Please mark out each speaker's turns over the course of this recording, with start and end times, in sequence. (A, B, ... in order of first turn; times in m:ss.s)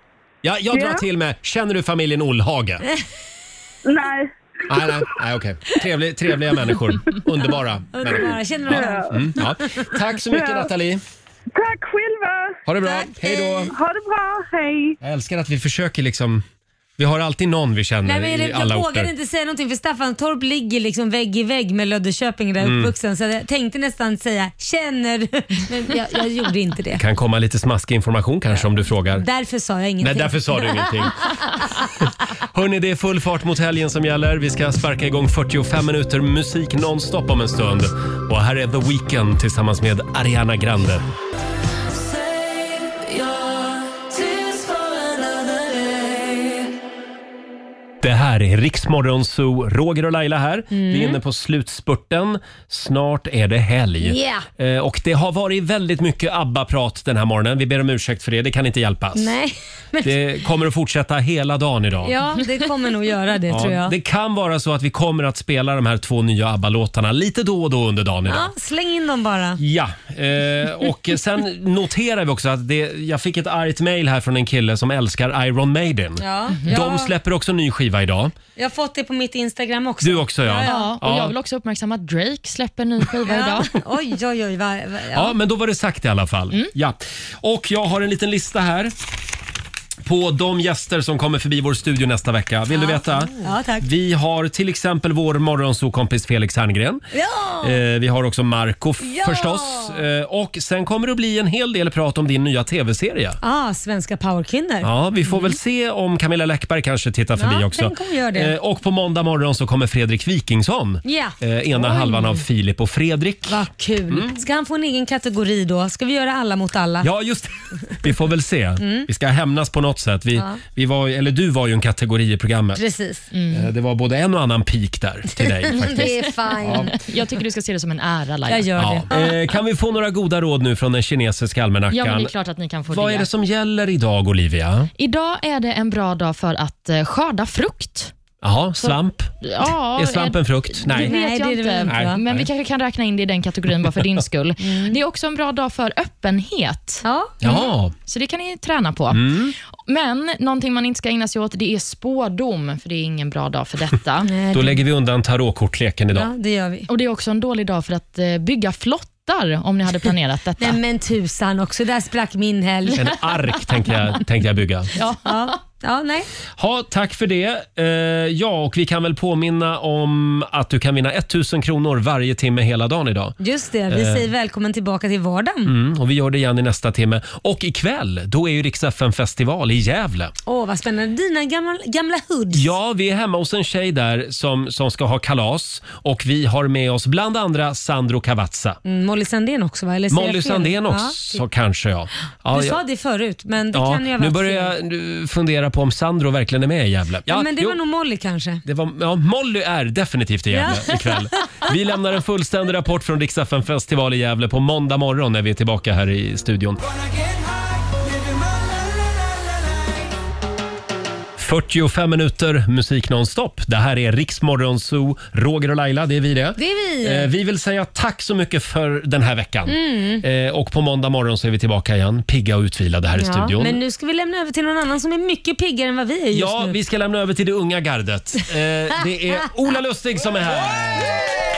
0:00.4-0:02.8 A
0:00.7-0:01.0 B
0:03.8-0:04.8 B
0:04.7-0:11.0 A
0:07.9-0:09.5 C
0:08.8-0:09.1 B
0:10.3-0:10.7 B
0:11.5-0:12.6 B
0:12.7-0:13.7 A
0:13.2-0:15.0 B
0:15.0-0:16.4 A
0:17.0-0:19.1 A
0:18.0-0:27.0 C
0:22.6-0:22.9 A
0:27.0-0:29.2 A
0:29.1-0:31.1 C
0:30.0-0:31.3 A
0:32.4-0:41.1 A
0:42.0-0:46.7 D
0:48.0-0:59.4 A
0:50.7-0:51.2 C
0:54.0-0:54.5 C
0:59.2-1:00.2 C
1:00.0-1:02.2 A
1:02.0-1:04.0 C
1:03.5-1:08.5 A
1:08.3-1:09.6 C
1:09.6-1:18.4 A
1:16.2-1:17.1 C
1:18.6-1:21.1 C
1:20.0-1:21.3 A
1:20.6-1:23.7 E
1:23.2-1:25.3 C
1:25.1-1:29.0 A
1:30.0-1:37.0 A
1:32.7-1:33.9 C
1:37.1-1:37.8 C
1:37.6-1:43.4 A
1:39.0-1:40.0 C
1:43.4-1:45.5 C
1:44.8-1:54.4 A
1:47.4-1:48.6 C
1:51.0-1:52.4 C
1:53.5-1:57.1 C
1:57.0-2:02.8 A
1:58.8-1:59.1 C
2:02.8-2:03.3 C
2:03.3-2:03.7 E
2:03.5-2:06.9 A
2:05.4-2:07.0 C
2:06.1-2:08.9 E
2:08.5-2:09.3 C
2:08.8-2:12.3 A
2:11.9-2:13.3 E
2:12.9-2:14.9 A
2:15.0-2:18.1 E
2:18.4-2:21.1 A
2:18.8-2:34.3 E
2:20.9-2:22.2 C
2:21.8-2:22.5 A
2:24.6-2:25.0 C
2:27.0-2:27.4 C
2:27.4-2:28.0 A
2:29.1-2:29.6 A
2:34.2-2:34.8 C
2:34.5-2:36.3 A
2:36.1-2:36.9 C
2:36.9-2:40.8 E
2:40.6-2:43.1 C
2:43.0-2:44.9 A
2:45.0-2:45.5 E
2:45.2-2:46.3 C
2:46.6-2:53.4 A
2:53.4-2:55.7 C
2:53.9-2:54.3 A
2:55.6-3:00.3 A
3:00.5-3:02.7 C
3:02.5-3:08.8 A
3:08.8-3:11.4 C
3:10.1-3:12.8 A
3:12.5-3:14.7 C
3:13.7-3:17.8 A
3:17.3-3:18.6 C
3:18.6-3:26.8 A
3:20.5-3:21.3 C
3:31.4-3:43.8 A
3:36.6-3:37.3 C
3:39.7-3:40.2 C
3:43.2-3:46.8 C
3:46.3-3:51.2 A